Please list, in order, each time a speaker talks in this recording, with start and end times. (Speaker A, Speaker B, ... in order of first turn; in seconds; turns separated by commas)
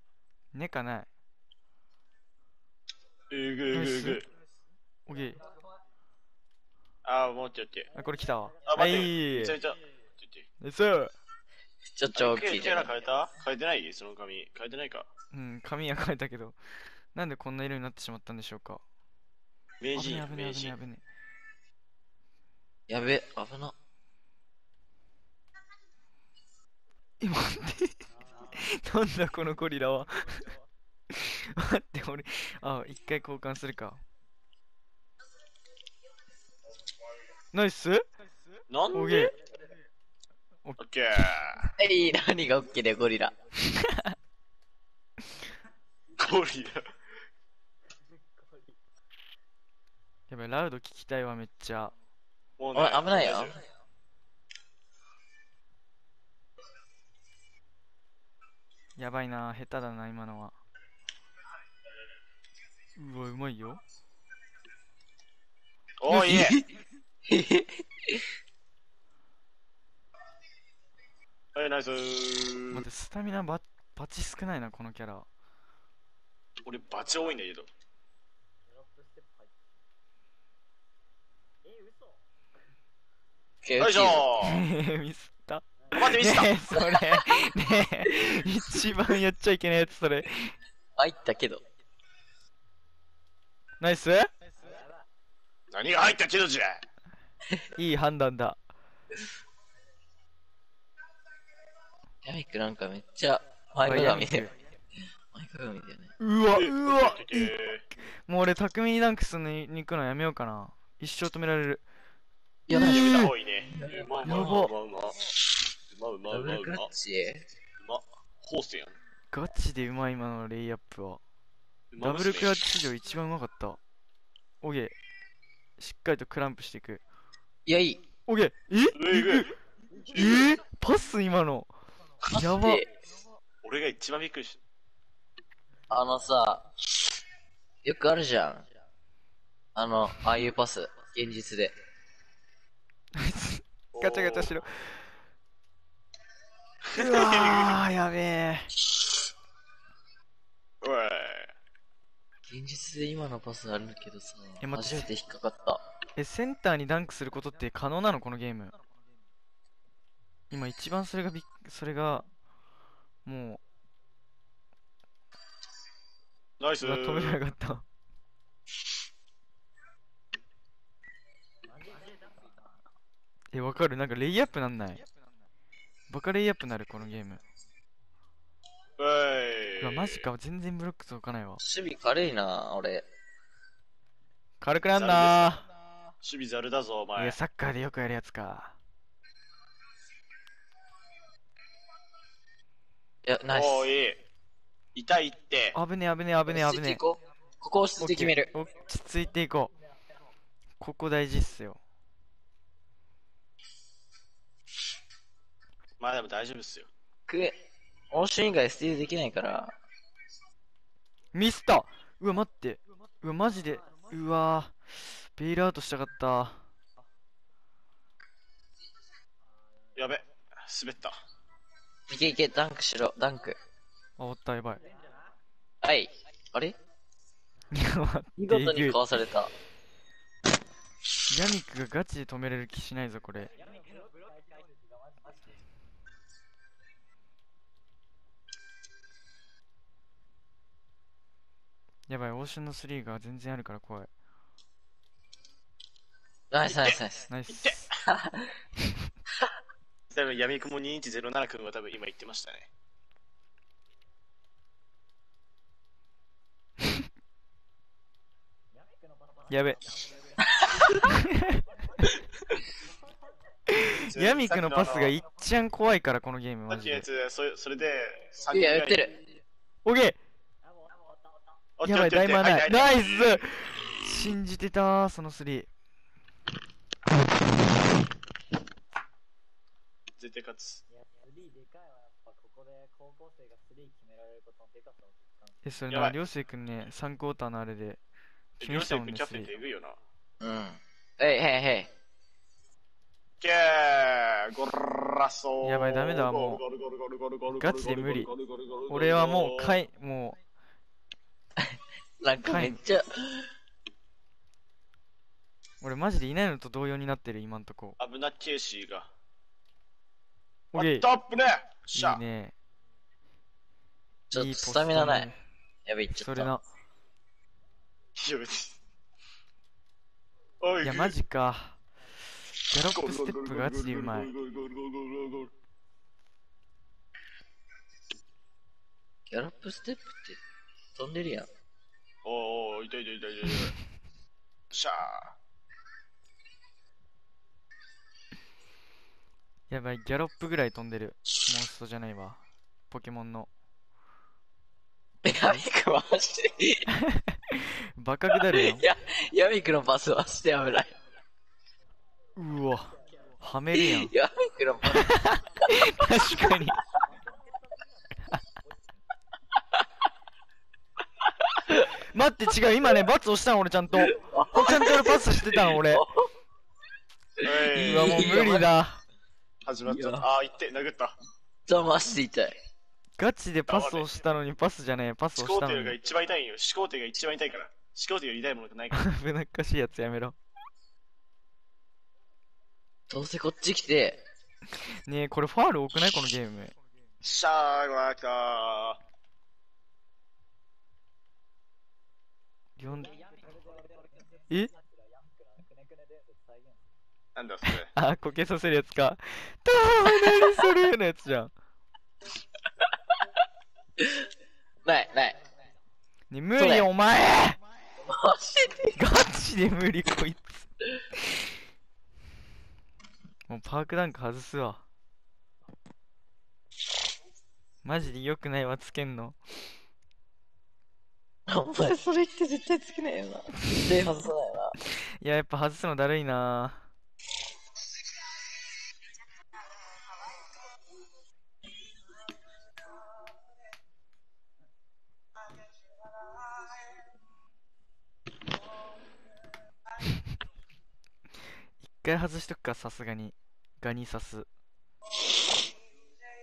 Speaker A: 0.5-1.1, Speaker B: 3.3-4.3, Speaker A: 3.7-4.2, Speaker A: 5.1-5.4, Speaker B: 7.0-7.9, Speaker A: 7.9-9.6, Speaker B: 8.7-10.5, Speaker A: 10.6-11.1, Speaker C: 11.9-12.9, Speaker B: 12.1-15.1, Speaker A: 15.3-16.6, Speaker A: 17.1-18.8, Speaker B: 19.8-20.8, Speaker A: 19.9-21.0, Speaker C: 22.9-23.7, Speaker A: 27.2-30.5, Speaker A: 31.1-34.0, Speaker A: 37.5-38.0, Speaker B: 38.7-39.4, Speaker A: 38.9-39.4, Speaker A: 40.6-41.3, Speaker B: 40.8-41.6, Speaker C: 41.8-43.3, Speaker A: 43.7-44.1, Speaker B: 46.2-46.8, Speaker D: 48.4-48.7, Speaker A: 50.3-51.9, Speaker B: 52.6-53.6, Speaker C: 52.7-53.6, Speaker A: 59.0-60.5, Speaker A: 63.0-63.8, Speaker B: 66.0-66.6, Speaker A: 66.1-66.5, Speaker C: 66.2-66.6, Speaker C: 67.2-68.2, Speaker B: 71.5-72.9, Speaker A: 72.7-75.2, Speaker B: 76.6-77.7, Speaker D: 78.7-79.7, Speaker D: 81.6-82.2, Speaker C: 83.6-84.3, Speaker B: 83.8-84.6, Speaker A: 84.4-90.5, Speaker D: 85.8-86.1, Speaker B: 85.9-86.5, Speaker C: 86.7-87.5, Speaker C: 88.2-88.9, Speaker C: 91.0-91.6, Speaker A: 93.8-94.3, Speaker D: 94.6-95.0, Speaker B: 95.7-96.8, Speaker A: 97.8-98.6, Speaker C: 102.2-104.5, Speaker A: 103.8-104.5, Speaker C: 105.3-106.1, Speaker A: 106.2-107.5, Speaker B: 106.5-107.8, Speaker A: 108.2-111.8, Speaker C: 112.7-114.6, Speaker A: 112.7-113.3, Speaker B: 112.8-115.2, Speaker A: 114.2-114.7, Speaker B: 115.9-116.9, Speaker C: 116.3-117.5, Speaker B: 117.8-119.0, Speaker A: 119.3-121.2, Speaker B: 121.9-122.6, Speaker A: 122.0-123.8, Speaker A: 124.6-124.9, Speaker A: 125.8-127.0, Speaker C: 127.7-128.0, Speaker A: 128.3-129.5, Speaker B: 128.9-129.5, Speaker B: 130.1-130.6, Speaker A: 130.2-131.7, Speaker C: 132.2-132.9, Speaker A: 132.3-132.8, Speaker B: 133.6-134.6, Speaker C: 135.9-136.6, Speaker C: 137.8-138.6, Speaker C: 139.7-141.7, Speaker A: 143.1-144.9, Speaker B: 143.9-144.6, Speaker B: 146.9-147.7, Speaker A: 146.9-148.7, Speaker B: 150.8-151.5, Speaker C: 152.5-155.8, Speaker A: 154.6-155.1, Speaker A: 156.2-158.8, Speaker A: 160.5-162.2, Speaker A: 163.2-163.6, Speaker B: 166.6-167.4, Speaker A: 166.8-167.8, Speaker D: 171.7-172.6, Speaker A: 173.5-175.0, Speaker A: 176.1-177.4, Speaker B: 179.0-180.2, Speaker A: 179.8-181.6, Speaker C: 181.6-183.0, Speaker A: 184.6-185.6, Speaker B: 184.9-185.6, Speaker B: 186.2-187.4, Speaker A: 187.2-188.8, Speaker C: 193.2-193.9, Speaker B: 193.5-194.2, Speaker B: 194.9-195.8, Speaker A: 195.7-197.0, Speaker C: 196.5-198.5, Speaker A: 198.0-199.7, Speaker A: 200.8-201.8, Speaker B: 206.0-206.9, Speaker C: 207.3-207.6, Speaker C: 208.1-209.8, Speaker A: 211.3-216.6, Speaker B: 219.9-221.2, Speaker C: 222.1-223.6, Speaker A: 224.2-224.8, Speaker D: 224.8-225.3, Speaker C: 225.8-226.8, Speaker A: 227.7-229.0, Speaker C: 228.4-229.5, Speaker A: 231.3-233.5, Speaker D: 233.6-235.5, Speaker A: 242.1-244.1, Speaker C: 246.5-247.2, Speaker B: 246.7-247.0, Speaker A: 247.3-247.8, Speaker B: 247.5-247.8, Speaker C: 248.1-248.5, Speaker B: 250.1-252.7, Speaker D: 258.7-262.1, Speaker A: 259.5-259.8, Speaker A: 261.1-261.5, Speaker D: 262.8-263.3, Speaker A: 263.7-267.1, Speaker B: 264.0-265.1, Speaker B: 266.7-269.1, Speaker C: 268.5-269.1, Speaker D: 268.6-269.1, Speaker A: 269.8-270.2, Speaker D: 270.6-271.6, Speaker B: 271.8-273.5, Speaker A: 271.8-275.7, Speaker B: 280.2-280.8, Speaker D: 280.9-285.6, Speaker A: 285.6-288.0, Speaker B: 285.9-286.2, Speaker B: 288.6-290.0, Speaker A: 288.6-289.5, Speaker C: 290.4-291.9, Speaker B: 293.4-299.8, Speaker A: 295.6-296.6, Speaker A: 297.6-298.3, Speaker A: 298.9-300.4, Speaker C: 301.6-303.5, Speaker A: 302.4-302.8, Speaker A: 305.8-308.0, Speaker B: 308.0-309.1, Speaker B: 310.7-312.2, Speaker A: 310.7-311.1, Speaker A: 311.9-312.5, Speaker C: 314.3-315.3, Speaker A: 314.3-315.4, Speaker C: 315.9-316.5, Speaker A: 316.2-316.6, Speaker B: 318.1-318.7, Speaker B: 320.6-321.1, Speaker A: 320.8-321.8, Speaker A: 322.7-324.3, Speaker B: 322.8-325.5, Speaker C: 329.3-330.4, Speaker C: 330.9-331.5, Speaker B: 332.2-333.8, Speaker B: 334.7-335.3, Speaker A: 339.7-343.5, Speaker C: 345.2-346.9, Speaker A: 346.9-348.8, Speaker C: 348.3-350.9, Speaker A: 352.4-354.1, Speaker C: 353.7-356.8, Speaker A: 354.9-356.8, Speaker D: 357.1-358.9, Speaker A: 361.9-366.0, Speaker C: 364.1-366.3, Speaker C: 367.4-368.7, Speaker B: 367.4-368.4, Speaker A: 367.7-369.0, Speaker B: 369.6-371.1, Speaker C: 369.8-370.3, Speaker C: 371.7-372.6, Speaker A: 373.2-376.0, Speaker B: 373.7-374.1, Speaker B: 375.4-379.1, Speaker A: 378.9-380.4, Speaker C: 383.1-384.2, Speaker A: 384.9-386.7, Speaker B: 387.2-389.0, Speaker A: 392.8-393.2, Speaker D: 393.0-396.8, Speaker B: 397.4-397.9, Speaker A: 397.7-401.5, Speaker C: 400.1-400.7, Speaker C: 404.0-404.2, Speaker C: 404.8-405.4, Speaker A: 406.3-407.6, Speaker C: 406.6-406.9, Speaker C: 408.0-409.0, Speaker A: 408.9-410.7, Speaker A: 413.5-414.8, Speaker A: 417.8-419.4, Speaker C: 421.5-424.8, Speaker A: 425.2-426.8, Speaker A: 441.8-444.5